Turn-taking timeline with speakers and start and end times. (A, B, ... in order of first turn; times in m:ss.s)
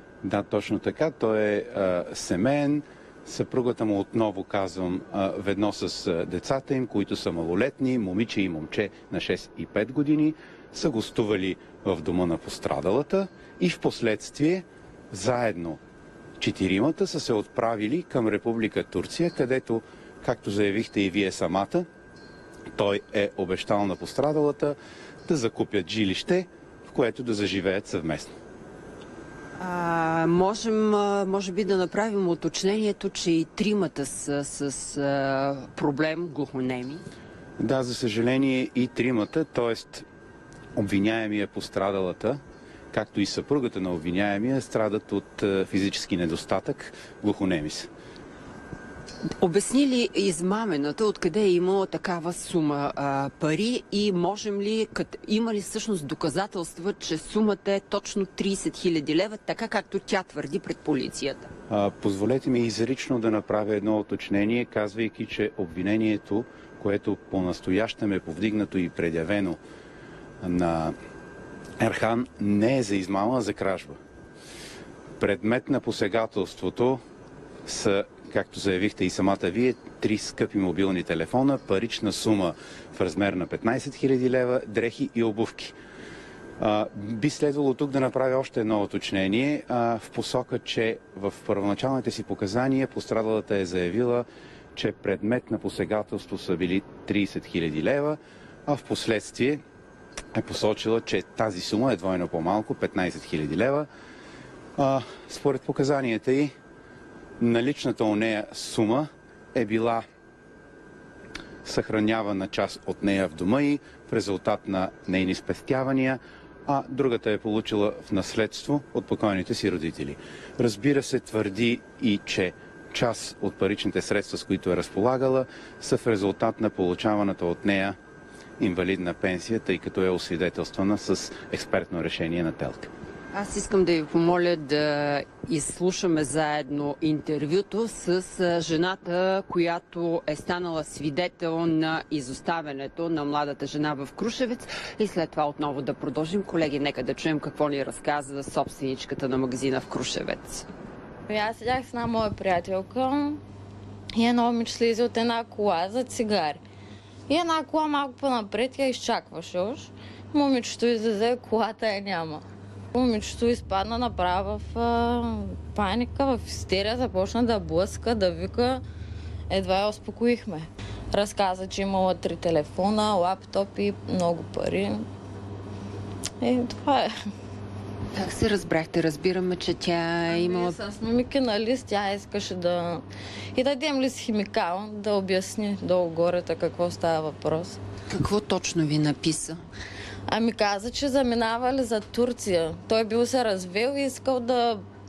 0:00.2-0:15.8 A
0:16.4-0:21.9 A
0:22.8-0:28.3 A
0:29.6-0:37.0 B
0:37.6-0:40.1 A
0:40.8-0:42.4 A
0:42.9-0:47.9 A
0:49.4-1:01.5 B
1:01.7-1:09.6 A
1:10.4-1:10.9 A
1:11.8-1:14.0 A
1:15.2-1:17.0 A
1:17.7-1:25.8 A
1:26.6-1:39.6 A
1:40.3-1:43.9 A
1:44.8-1:46.5 A
1:47.4-1:50.0 A
1:51.6-2:08.0 A
2:08.6-2:12.9 A
2:13.3-2:30.7 B
2:31.3-2:33.4 C
2:34.2-2:36.6 C
2:37.3-2:48.8 C
2:49.5-2:55.0 C
2:56.4-2:57.1 C
2:58.2-3:00.8 B
3:00.3-3:03.0 C
3:03.5-3:07.8 C
3:08.1-3:09.6 B
3:10.3-3:14.8 C